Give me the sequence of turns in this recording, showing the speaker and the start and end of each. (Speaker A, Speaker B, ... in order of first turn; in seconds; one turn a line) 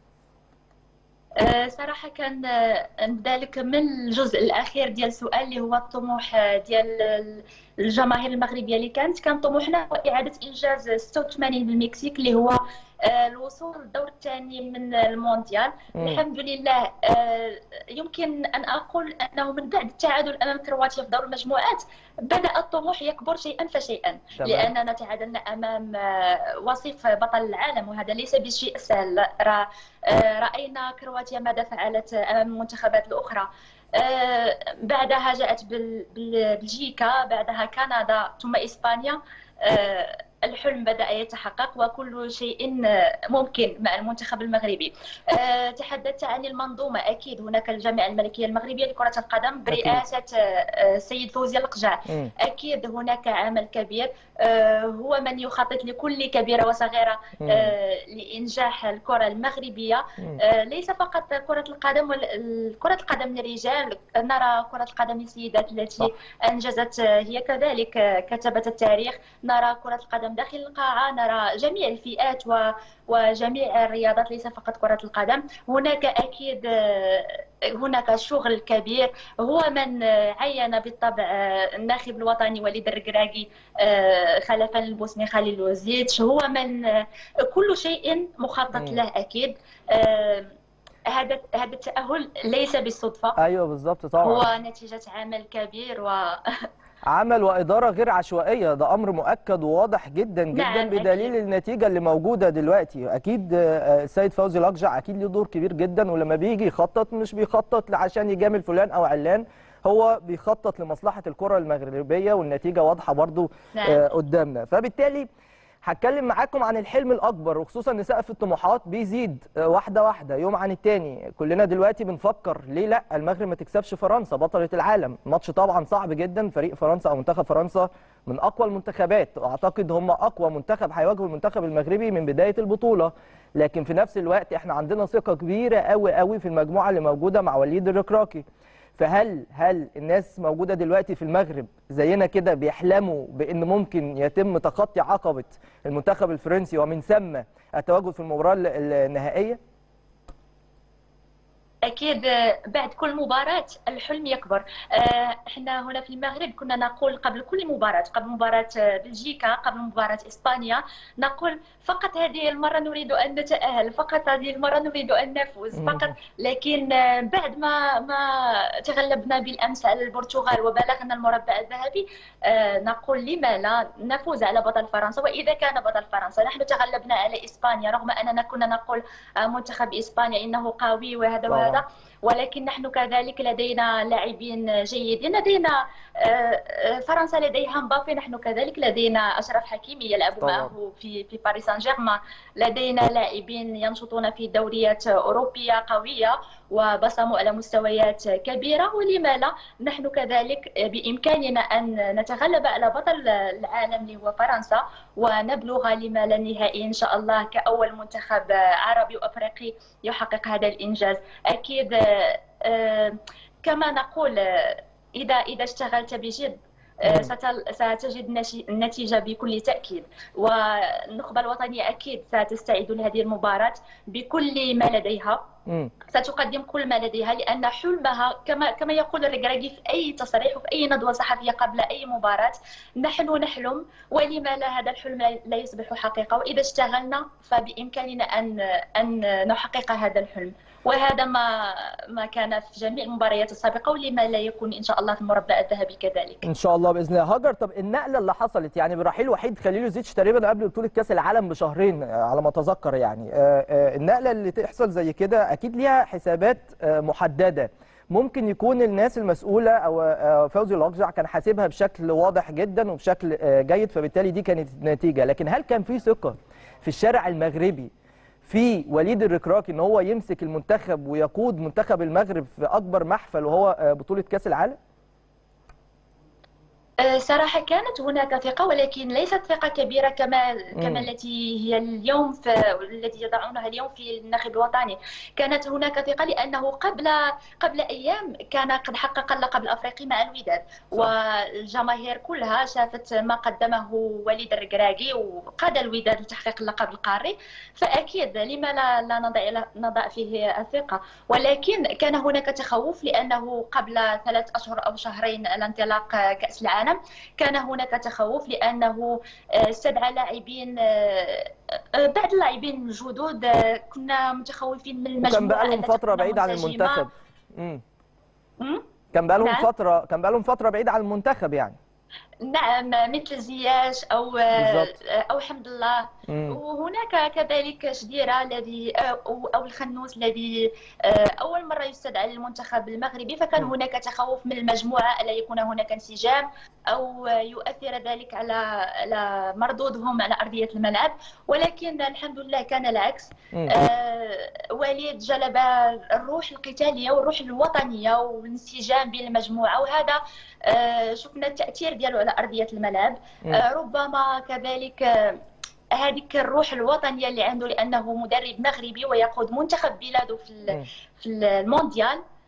Speaker A: 1.4-90.5
Speaker B: 15.9-16.2
Speaker B: 24.4-24.7
Speaker B: 49.7-50.0
Speaker B: 57.4-57.7
Speaker B: 88.7-89.0
Speaker A: 91.1-93.4
Speaker B: 93.4-94.5
Speaker A: 94.2-96.4
Speaker B: 97.1-115.3
Speaker A: 100.5-101.3
Speaker A: 113.8-114.0
Speaker B: 115.8-138.4
Speaker B: 139.0-149.6
Speaker A: 151.9-225.4
Speaker B: 165.8-166.1
Speaker B: 181.5-181.8
Speaker B: 190.4-190.7
Speaker B: 217.1-217.3
Speaker B: 225.7-225.9
Speaker A: 226.1-246.4
Speaker B: 246.4-267.9
Speaker B: 268.5-274.8
Speaker A: 277.0-317.1
Speaker B: 280.8-281.1
Speaker B: 315.2-317.8
Speaker B: 319.1-321.8
Speaker A: 319.4-319.7
Speaker A: 322.4-355.4
Speaker B: 324.6-324.9
Speaker B: 326.3-326.6
Speaker A: 355.9-362.2